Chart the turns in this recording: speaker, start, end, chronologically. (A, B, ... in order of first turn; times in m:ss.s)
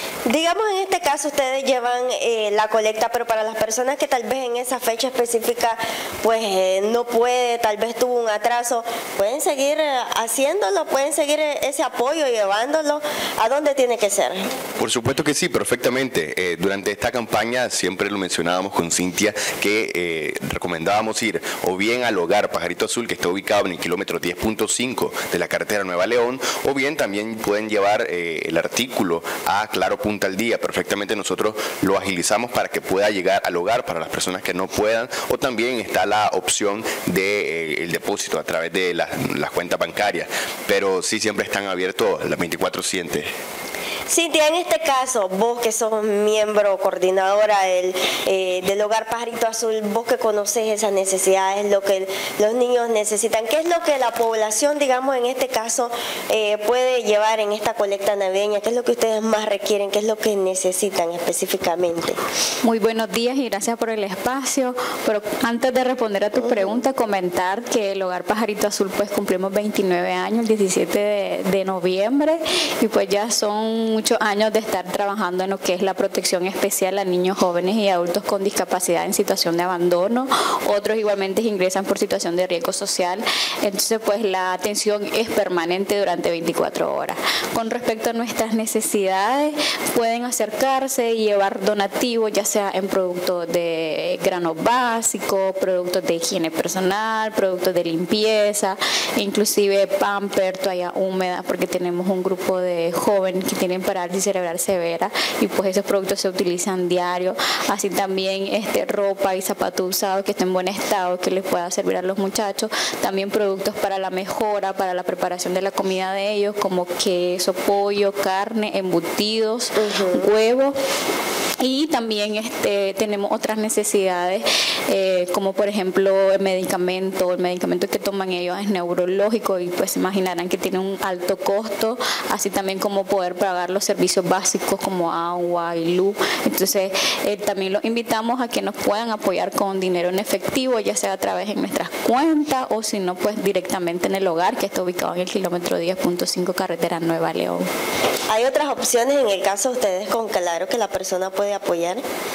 0:00.3-0:14.4 A
0:14.8-0:43.3 B
0:44.1-1:02.2 A
1:02.6-2:00.7 C
1:06.4-1:06.8 A
1:59.8-2:00.3 A
2:01.6-2:27.7 C
2:28.3-2:32.0 A